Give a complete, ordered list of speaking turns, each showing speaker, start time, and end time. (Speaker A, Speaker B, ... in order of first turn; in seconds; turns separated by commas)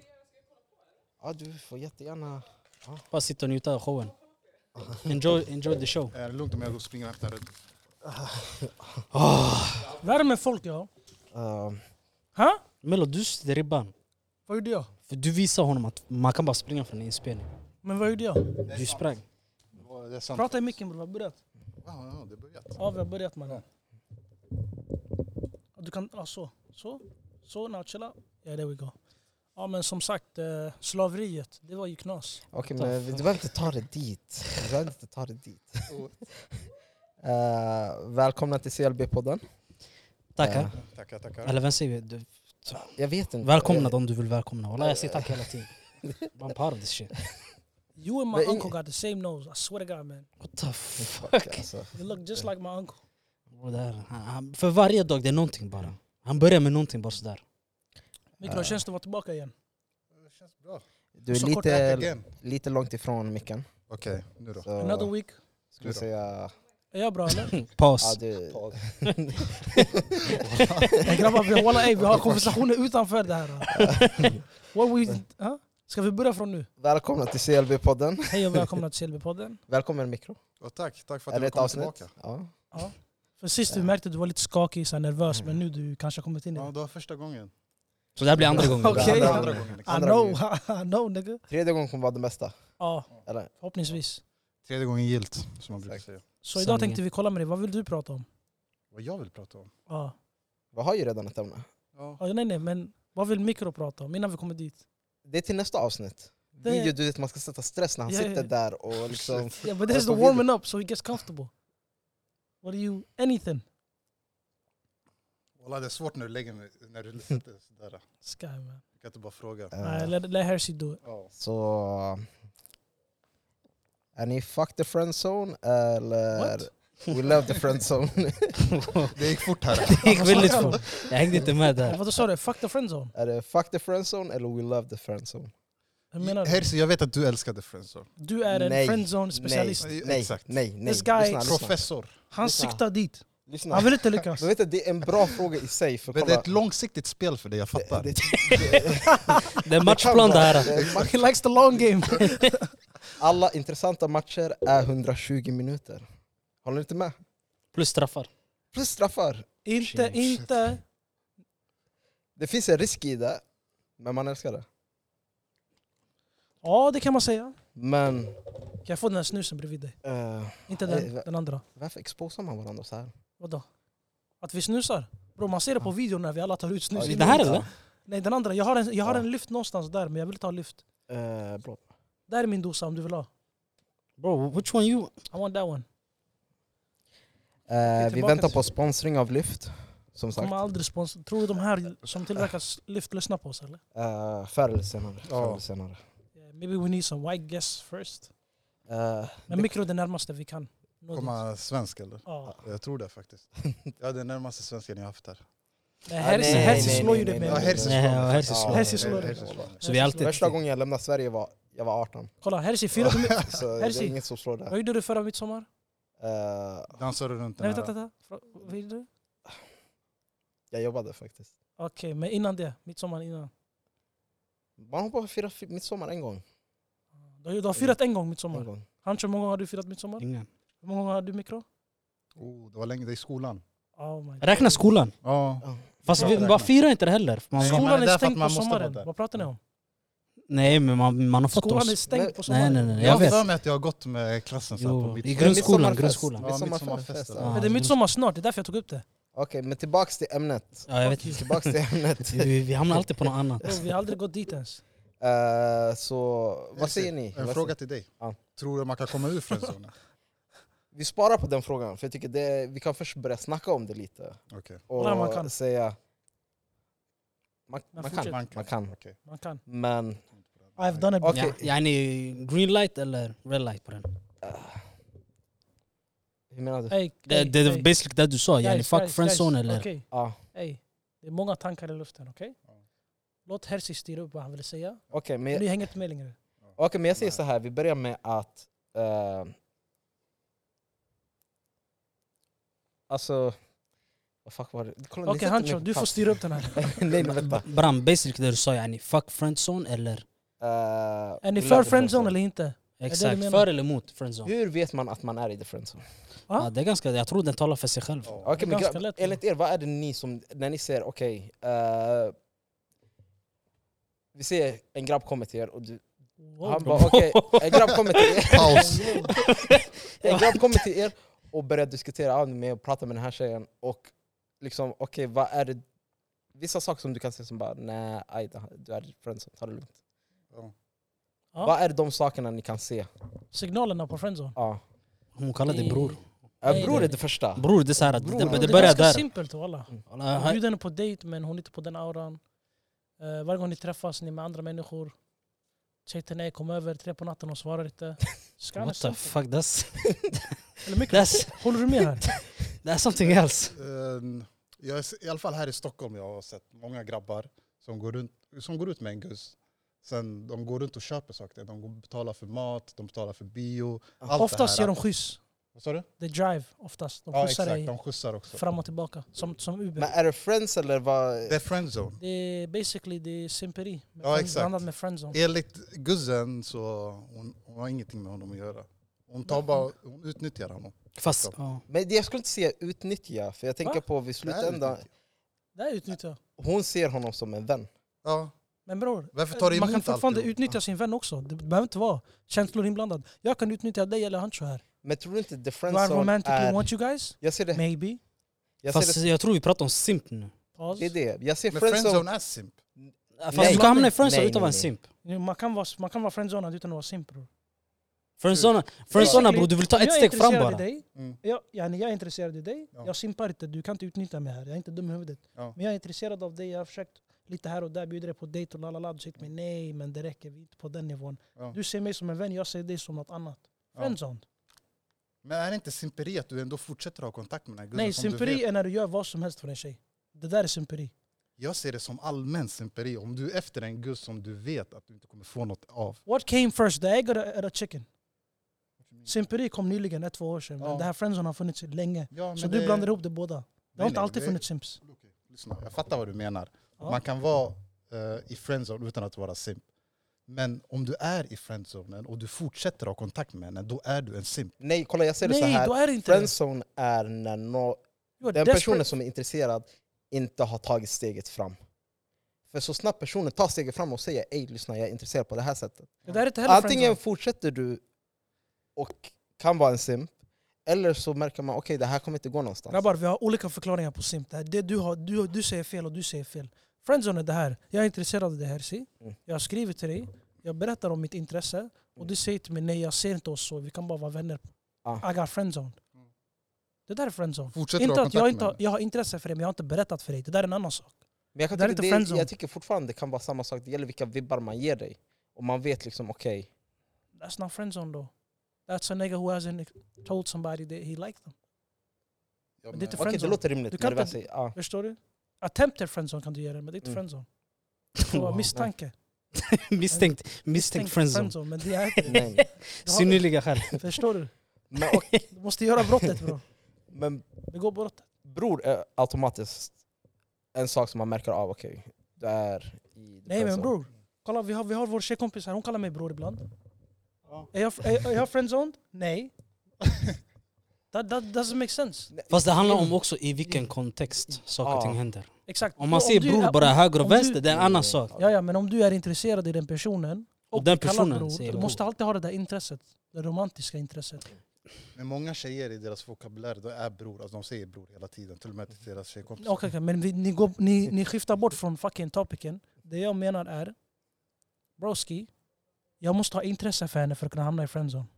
Speaker A: 1.2-3.0, Speaker B: 3.1-4.1, Speaker B: 5.0-6.1, Speaker C: 6.1-7.5, Speaker A: 8.0-9.0, Speaker B: 9.1-10.0, Speaker D: 10.0-10.9, Speaker A: 11.3-11.8, Speaker D: 12.3-12.6, Speaker B: 12.8-13.9, Speaker D: 14.5-14.9, Speaker B: 15.1-17.5, Speaker D: 17.8-18.6, Speaker B: 18.6-19.2, Speaker C: 18.7-19.0, Speaker C: 19.8-20.7, Speaker D: 20.3-21.4, Speaker C: 21.8-22.8, Speaker D: 22.8-23.6, Speaker D: 25.8-28.9, Speaker D: 29.6-32.4, Speaker A: 32.5-36.6, Speaker B: 32.8-33.5, Speaker C: 35.9-36.2, Speaker A: 37.2-39.4, Speaker B: 40.4-40.7, Speaker A: 40.4-40.8, Speaker C: 40.8-41.5, Speaker B: 41.4-45.8, Speaker A: 42.7-44.0, Speaker A: 44.8-45.5, Speaker B: 46.3-47.1, Speaker D: 48.0-50.3, Speaker A: 48.3-48.7, Speaker B: 50.4-51.7, Speaker A: 51.0-52.5, Speaker D: 51.9-53.0, Speaker B: 53.5-57.4, Speaker D: 58.4-59.5, Speaker A: 58.4-58.8, Speaker C: 60.2-60.8, Speaker A: 61.2-63.7, Speaker D: 61.3-61.9, Speaker C: 61.7-62.3, Speaker C: 63.9-64.7, Speaker A: 64.6-65.1, Speaker D: 64.8-65.4, Speaker A: 65.7-66.5, Speaker D: 66.9-67.6, Speaker B: 67.6-68.2, Speaker A: 68.0-71.3, Speaker C: 68.5-68.8, Speaker C: 70.2-71.1, Speaker D: 71.0-74.0, Speaker C: 71.9-72.6, Speaker A: 73.7-74.4, Speaker B: 73.8-74.3, Speaker D: 74.6-76.7, Speaker A: 76.8-78.7, Speaker D: 78.3-79.6, Speaker A: 79.7-80.4, Speaker C: 80.6-82.1, Speaker A: 81.3-82.5, Speaker D: 82.7-86.7, Speaker C: 86.5-87.5, Speaker B: 88.2-89.5, Speaker A: 88.4-90.4, Speaker C: 88.5-90.0, Speaker D: 88.6-91.4, Speaker A: 91.5-92.5, Speaker D: 92.8-94.2, Speaker A: 93.2-93.5, Speaker C: 94.6-96.2, Speaker D: 96.4-98.3, Speaker B: 96.5-97.0, Speaker C: 98.9-99.7, Speaker D: 99.9-100.1, Speaker A: 100.7-101.7, Speaker C: 102.0-102.2, Speaker D: 102.2-104.8, Speaker A: 105.2-110.4, Speaker D: 106.6-106.9, Speaker D: 108.1-108.5, Speaker C: 109.0-109.6, Speaker D: 109.6-111.5, Speaker D: 112.6-113.6, Speaker C: 115.6-118.0, Speaker D: 118.2-118.8, Speaker C: 119.0-119.7, Speaker A: 119.7-120.1, Speaker D: 119.8-121.0, Speaker C: 121.0-121.3, Speaker A: 121.3-122.3, Speaker A: 124.1-128.7, Speaker D: 126.3-126.7, Speaker B: 128.7-129.2, Speaker C: 129.1-131.5, Speaker B: 129.7-132.0, Speaker D: 130.0-130.9, Speaker D: 131.8-133.1, Speaker A: 133.1-135.5, Speaker D: 136.1-136.6, Speaker C: 136.2-138.1, Speaker D: 138.2-139.9, Speaker A: 138.5-141.8, Speaker C: 139.8-140.6, Speaker D: 140.8-141.5, Speaker C: 141.4-142.2, Speaker D: 142.3-144.5, Speaker A: 142.4-142.8, Speaker A: 143.4-146.5, Speaker C: 146.1-148.9, Speaker A: 147.7-151.2, Speaker D: 148.4-149.4, Speaker B: 149.6-150.9, Speaker C: 150.6-151.1, Speaker D: 150.8-152.7, Speaker A: 153.2-156.1, Speaker A: 156.6-157.2, Speaker B: 157.7-158.3, Speaker A: 158.7-159.5, Speaker D: 159.6-160.8, Speaker B: 159.8-160.4, Speaker A: 162.4-163.4, Speaker A: 164.0-164.7, Speaker D: 166.6-167.6, Speaker A: 167.8-168.4, Speaker D: 168.8-169.9, Speaker A: 170.0-173.1, Speaker D: 170.7-171.6, Speaker D: 173.4-173.7, Speaker D: 174.4-180.8, Speaker A: 176.9-177.7, Speaker B: 177.0-177.7, Speaker A: 181.1-181.8, Speaker D: 182.3-183.3, Speaker B: 184.2-185.1, Speaker D: 185.3-185.8, Speaker A: 187.7-190.6, Speaker D: 187.9-188.6, Speaker D: 190.3-193.8, Speaker A: 193.9-196.0, Speaker C: 195.3-195.6, Speaker D: 196.3-198.3, Speaker A: 198.9-199.7, Speaker D: 199.5-201.4, Speaker C: 201.1-203.5, Speaker D: 202.2-202.6, Speaker C: 204.0-205.4, Speaker D: 206.1-207.8, Speaker A: 206.2-212.3, Speaker B: 206.4-207.2, Speaker C: 206.6-209.8, Speaker B: 207.7-209.2, Speaker D: 208.7-210.4, Speaker B: 209.8-210.6, Speaker D: 212.4-214.2, Speaker A: 213.0-214.7, Speaker C: 213.2-213.6, Speaker D: 214.7-215.7, Speaker A: 216.2-217.0, Speaker C: 216.9-217.9, Speaker D: 217.6-219.1, Speaker A: 220.7-221.5, Speaker D: 221.8-223.5, Speaker A: 224.8-226.4, Speaker D: 227.4-230.2, Speaker A: 228.5-228.8, Speaker B: 230.2-230.5, Speaker D: 230.8-231.7, Speaker C: 232.4-233.6, Speaker D: 234.0-234.8, Speaker B: 234.4-235.1, Speaker C: 235.2-236.7, Speaker A: 235.6-236.6, Speaker B: 236.1-237.9, Speaker C: 237.5-239.1, Speaker D: 237.6-239.6, Speaker B: 240.5-243.4, Speaker D: 241.5-243.3, Speaker A: 242.1-242.4, Speaker C: 243.0-247.6, Speaker B: 244.8-246.4, Speaker A: 245.3-247.6, Speaker B: 247.4-247.9, Speaker D: 247.5-249.0, Speaker A: 249.3-253.1, Speaker B: 250.9-253.8, Speaker D: 251.0-251.3, Speaker D: 253.6-254.8, Speaker A: 255.2-258.4, Speaker C: 256.7-259.9, Speaker A: 260.9-266.0, Speaker C: 264.5-264.8, Speaker D: 265.0-265.5, Speaker A: 267.7-268.9, Speaker D: 267.9-268.4, Speaker C: 268.0-269.1, Speaker D: 269.2-269.6, Speaker A: 269.6-270.2, Speaker C: 270.4-271.1, Speaker D: 270.8-271.5, Speaker A: 271.2-271.6, Speaker B: 271.3-274.1, Speaker A: 274.4-274.8, Speaker A: 276.5-276.9, Speaker D: 276.9-277.9, Speaker B: 277.2-279.9, Speaker D: 278.6-282.6, Speaker A: 280.1-280.4, Speaker D: 283.4-286.4, Speaker A: 285.1-285.7, Speaker C: 286.6-287.4, Speaker A: 286.8-289.5, Speaker A: 293.1-293.6, Speaker A: 294.4-297.7, Speaker D: 295.2-297.0, Speaker B: 297.4-300.2, Speaker A: 300.6-302.3, Speaker D: 301.4-303.6, Speaker B: 303.0-304.5, Speaker A: 304.4-306.0, Speaker B: 306.6-308.4, Speaker C: 308.2-308.5, Speaker A: 308.4-312.3, Speaker D: 308.5-309.4, Speaker A: 314.3-316.0, Speaker D: 316.4-317.0, Speaker A: 316.6-319.0, Speaker B: 316.8-320.8, Speaker C: 318.4-319.2, Speaker D: 318.7-319.3, Speaker A: 320.2-325.8, Speaker A: 326.5-329.9, Speaker A: 331.6-333.1, Speaker D: 333.5-334.5, Speaker A: 334.5-334.8, Speaker B: 335.4-339.2, Speaker D: 335.7-337.2, Speaker A: 336.6-339.1, Speaker D: 338.4-342.4, Speaker B: 340.1-340.6, Speaker D: 343.2-345.1, Speaker D: 346.0-349.3, Speaker B: 348.8-350.4, Speaker D: 350.8-352.3, Speaker B: 351.1-352.0, Speaker B: 352.6-353.8, Speaker C: 353.7-364.9, Speaker D: 364.4-365.4, Speaker C: 365.7-366.1, Speaker D: 366.2-367.9, Speaker C: 367.3-368.6, Speaker D: 368.5-370.1, Speaker A: 370.0-371.6, Speaker C: 371.5-372.2, Speaker D: 372.2-375.4, Speaker C: 374.2-381.5, Speaker B: 381.2-381.8, Speaker A: 381.9-385.0, Speaker C: 384.4-385.1, Speaker D: 385.7-386.4, Speaker A: 386.6-387.9, Speaker C: 388.2-388.5, Speaker D: 388.9-394.8, Speaker C: 389.3-390.5, Speaker A: 395.0-397.8, Speaker D: 395.9-398.2, Speaker A: 398.8-399.2, Speaker B: 398.9-400.5, Speaker D: 400.8-401.1, Speaker A: 400.9-402.2, Speaker C: 401.7-402.8, Speaker A: 403.0-404.9, Speaker B: 403.4-405.0, Speaker D: 403.5-404.1, Speaker D: 405.2-407.5, Speaker B: 408.4-410.8, Speaker C: 408.5-409.6, Speaker D: 409.1-424.4, Speaker C: 425.4-428.6, Speaker D: 427.9-431.1, Speaker C: 431.6-436.2, Speaker D: 436.2-438.1, Speaker C: 439.0-439.3, Speaker D: 439.2-445.0, Speaker C: 440.8-441.1, Speaker C: 442.3-443.1, Speaker C: 443.9-449.8, Speaker C: 450.5-454.7, Speaker A: 454.8-461.8, Speaker D: 455.4-456.5, Speaker D: 458.4-459.1, Speaker A: 462.7-468.0, Speaker D: 466.2-467.2, Speaker A: 468.9-473.0, Speaker D: 472.9-486.0, Speaker D: 487.1-491.2, Speaker C: 487.7-488.8, Speaker A: 491.5-496.7, Speaker D: 491.7-492.5, Speaker D: 497.4-498.3, Speaker D: 498.9-501.5, Speaker C: 502.8-503.5, Speaker D: 502.9-507.5, Speaker A: 503.1-504.8, Speaker B: 508.2-508.8, Speaker D: 508.2-509.1, Speaker B: 509.5-511.7, Speaker D: 510.1-514.5, Speaker B: 512.2-514.0, Speaker A: 512.2-512.6, Speaker A: 514.9-515.4, Speaker B: 515.0-515.4, Speaker D: 515.5-516.6, Speaker A: 517.1-517.5, Speaker D: 517.7-518.2, Speaker A: 518.4-520.0, Speaker A: 520.7-523.9, Speaker D: 523.5-526.6, Speaker D: 527.7-529.5, Speaker D: 531.1-532.3, Speaker A: 532.3-533.1, Speaker B: 532.5-538.3, Speaker A: 534.5-535.2, Speaker D: 535.7-537.6, Speaker A: 537.7-538.5, Speaker D: 538.3-544.5, Speaker B: 540.7-542.0, Speaker C: 545.1-549.9, Speaker D: 549.6-554.0, Speaker D: 555.0-555.5, Speaker D: 556.2-558.3